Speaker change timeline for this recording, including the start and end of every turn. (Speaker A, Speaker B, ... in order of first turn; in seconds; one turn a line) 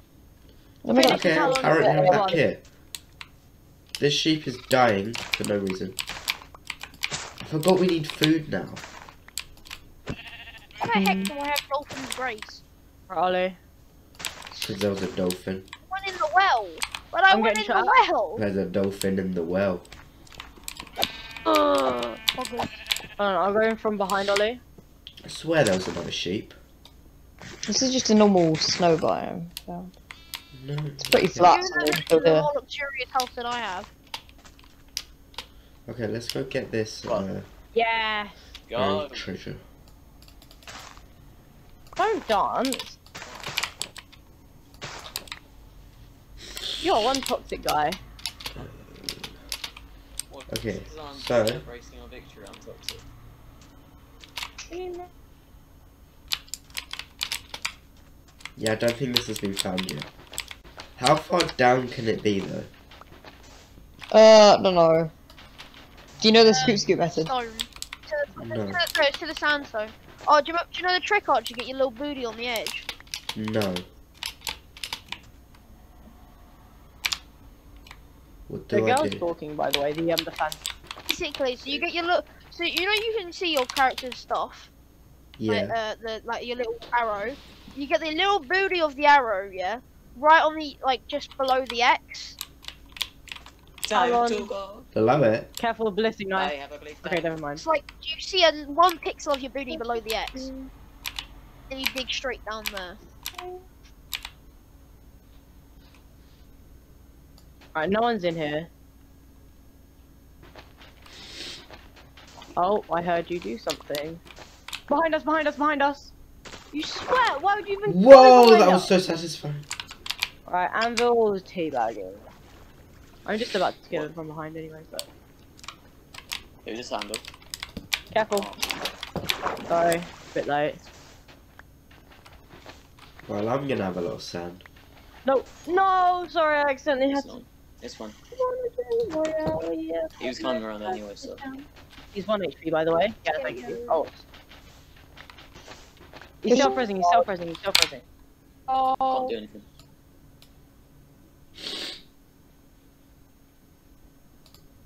Speaker A: 0.8-2.3
Speaker B: 0.9-2.4
Speaker C: 0.9-2.6
Speaker C: 4.0-6.0
Speaker C: 7.4-8.8
Speaker D: 10.8-12.6
Speaker A: 10.9-11.3
Speaker B: 13.1-13.6
Speaker C: 14.6-15.7
Speaker D: 15.9-18.4
Speaker B: 17.3-18.0
Speaker C: 18.4-19.9
Speaker D: 21.4-22.8
Speaker B: 23.2-24.6
Speaker C: 25.2-26.6
Speaker A: 27.7-29.9
Speaker C: 30.5-31.6
Speaker A: 31.0-32.5
Speaker D: 31.4-33.9
Speaker C: 35.9-37.5
Speaker B: 37.7-38.4
Speaker E: 38.6-39.3
Speaker C: 38.7-39.6
Speaker B: 42.0-43.0
Speaker E: 43.2-43.5
Speaker B: 46.8-48.0
Speaker C: 48.5-49.4
Speaker E: 50.3-53.0
Speaker C: 50.5-51.6
Speaker B: 54.7-55.1
Speaker C: 58.6-60.1
Speaker C: 61.0-62.7
Speaker A: 64.1-65.1
Speaker A: 66.2-67.3
Speaker D: 66.5-72.9
Speaker C: 68.4-68.8
Speaker C: 73.3-73.9
Speaker C: 78.5-79.3
Speaker B: 78.7-80.6
Speaker D: 81.1-84.7
Speaker C: 85.4-85.8
Speaker D: 85.5-92.4
Speaker E: 93.8-94.9
Speaker B: 93.9-94.5
Speaker C: 94.9-95.5
Speaker B: 95.6-97.6
Speaker E: 96.3-97.4
Speaker D: 97.6-100.5
Speaker B: 99.7-100.7
Speaker D: 101.7-103.0
Speaker B: 103.3-103.6
Speaker B: 107.7-108.7
Speaker B: 112.5-114.2
Speaker B: 114.9-116.1
Speaker D: 116.7-117.8
Speaker B: 116.8-118.8
Speaker C: 117.8-119.7
Speaker B: 120.5-122.3
Speaker B: 123.2-125.1
Speaker E: 126.6-127.2
Speaker B: 128.1-128.5
Speaker E: 128.3-128.7
Speaker B: 129.7-130.8
Speaker C: 133.2-134.6
Speaker B: 135.2-137.3
Speaker E: 137.1-138.2
Speaker B: 138.3-144.1
Speaker E: 140.2-141.4
Speaker D: 143.3-144.2
Speaker B: 146.4-148.0
Speaker A: 146.5-146.9
Speaker B: 148.7-149.3
Speaker E: 149.1-149.7